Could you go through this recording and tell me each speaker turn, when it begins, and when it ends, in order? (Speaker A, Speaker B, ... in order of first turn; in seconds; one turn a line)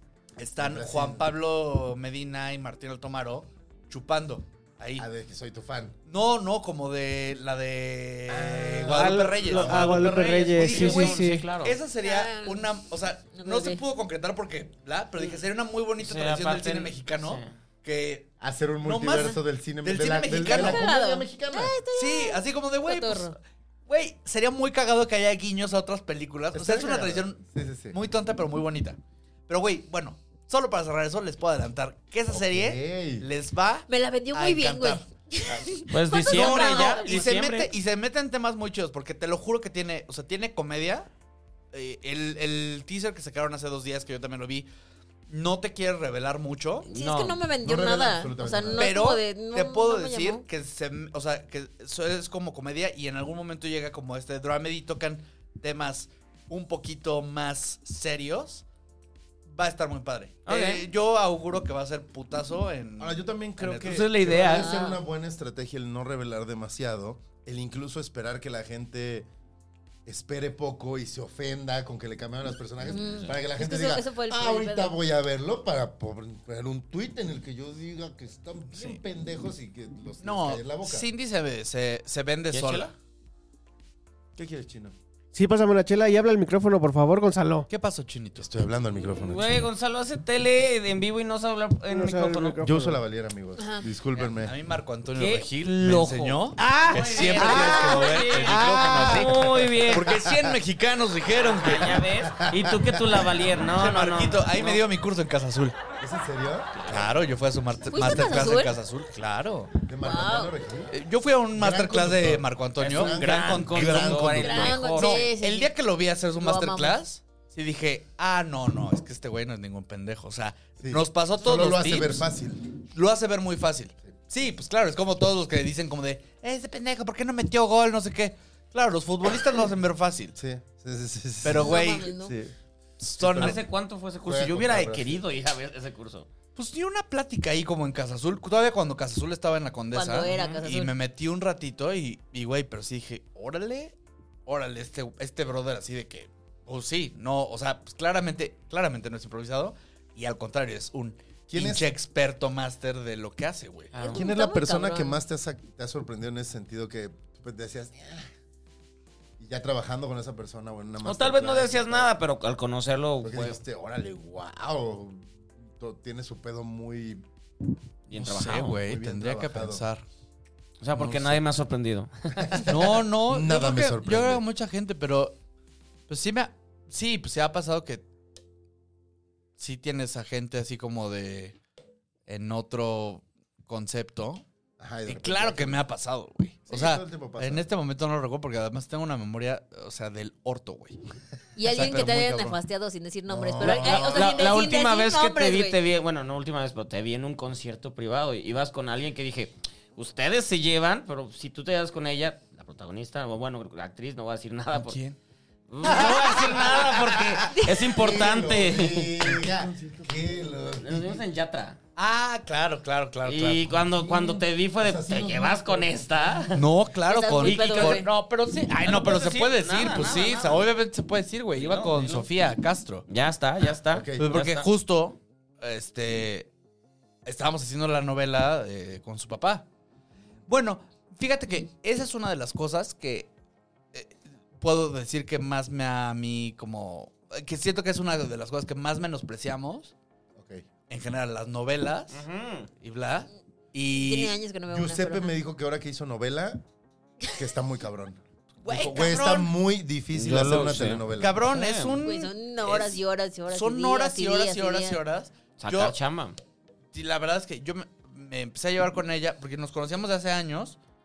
Speaker A: 0.4-5.1
Speaker B: 0.6-1.3
Speaker B: 5.0-6.0
Speaker A: 6.1-20.9
Speaker B: 8.3-10.1
Speaker C: 8.9-11.5
Speaker D: 9.5-11.8
Speaker E: 12.0-12.7
Speaker E: 13.3-13.8
Speaker D: 16.0-17.6
Speaker B: 18.4-21.8
Speaker E: 20.4-23.4
Speaker A: 21.9-27.4
Speaker B: 26.5-28.0
Speaker A: 27.9-35.1
Speaker B: 32.3-33.3
Speaker E: 33.9-37.0
Speaker D: 35.9-37.7
Speaker A: 36.2-41.1
Speaker A: 41.7-44.7
Speaker A: 45.3-46.9
Speaker D: 46.9-47.4
Speaker E: 46.9-50.5
Speaker B: 47.6-48.9
Speaker A: 48.8-58.6
Speaker A: 59.5-64.1
Speaker D: 60.5-60.9
Speaker B: 63.0-69.3
Speaker D: 63.8-64.8
Speaker E: 64.5-65.0
Speaker B: 70.1-81.1
Speaker E: 72.9-75.0
Speaker D: 73.0-73.3
Speaker A: 80.2-82.9
Speaker D: 82.5-82.9
Speaker B: 84.4-85.0
Speaker C: 85.3-87.7
Speaker A: 87.7-88.5
Speaker B: 88.4-89.7
Speaker D: 89.1-92.6
Speaker C: 91.9-93.0
Speaker B: 92.6-94.5
Speaker E: 93.6-93.9
Speaker A: 94.2-102.0
Speaker D: 95.2-100.1
Speaker C: 96.6-99.3
Speaker B: 100.0-100.5
Speaker D: 101.3-104.8
Speaker B: 102.2-103.4
Speaker A: 103.7-105.8
Speaker B: 106.0-107.0
Speaker A: 106.8-109.7
Speaker E: 107.9-108.8
Speaker B: 109.8-110.9
Speaker E: 110.0-110.5
Speaker A: 110.9-122.2
Speaker B: 111.5-114.8
Speaker D: 112.8-115.3
Speaker E: 114.4-115.7
Speaker E: 116.4-117.0
Speaker B: 120.8-122.7
Speaker A: 123.0-130.3
Speaker B: 130.4-132.6
Speaker A: 131.4-132.1
Speaker E: 131.5-132.3
Speaker A: 133.0-133.6
Speaker B: 133.2-133.6
Speaker D: 133.2-136.3
Speaker B: 134.2-135.2
Speaker A: 136.6-143.9
Speaker E: 139.9-140.9
Speaker D: 140.3-140.6
Speaker A: 144.5-153.9
Speaker B: 151.5-151.9
Speaker D: 153.9-154.2
Speaker E: 154.0-155.2
Speaker B: 154.1-158.3
Speaker B: 159.4-162.1
Speaker D: 161.0-163.6
Speaker B: 163.2-167.2
Speaker D: 168.1-168.8
Speaker A: 168.2-170.0
Speaker B: 168.8-169.8
Speaker D: 170.8-172.7
Speaker A: 171.0-171.4
Speaker B: 172.5-174.4
Speaker A: 172.7-175.4
Speaker A: 176.1-178.1
Speaker A: 179.6-181.6
Speaker A: 182.3-184.4
Speaker B: 184.8-185.8
Speaker A: 185.1-191.0
Speaker B: 186.7-187.7
Speaker E: 191.6-195.8
Speaker A: 191.7-192.4
Speaker B: 191.7-192.6
Speaker B: 193.3-194.4
Speaker D: 193.6-205.0
Speaker A: 204.7-205.2
Speaker D: 205.7-209.5
Speaker A: 205.8-207.2
Speaker B: 207.7-211.2
Speaker D: 210.8-211.8
Speaker A: 212.0-213.7
Speaker D: 213.2-216.7
Speaker B: 213.8-216.5
Speaker A: 216.6-223.1
Speaker E: 217.1-218.1
Speaker D: 217.4-218.1
Speaker D: 218.8-220.7
Speaker D: 221.6-222.3
Speaker D: 223.1-224.7
Speaker B: 223.9-224.3
Speaker A: 224.2-226.5
Speaker A: 227.2-229.7
Speaker A: 230.5-233.3
Speaker A: 233.9-239.9
Speaker B: 240.4-240.7
Speaker A: 240.9-242.2
Speaker D: 242.1-242.7
Speaker A: 242.8-244.4
Speaker E: 243.9-245.3
Speaker B: 244.7-246.6
Speaker B: 247.3-251.5
Speaker A: 248.6-249.5
Speaker D: 250.1-252.0
Speaker A: 251.2-256.0
Speaker E: 252.0-255.0
Speaker D: 255.6-256.4
Speaker A: 256.9-260.8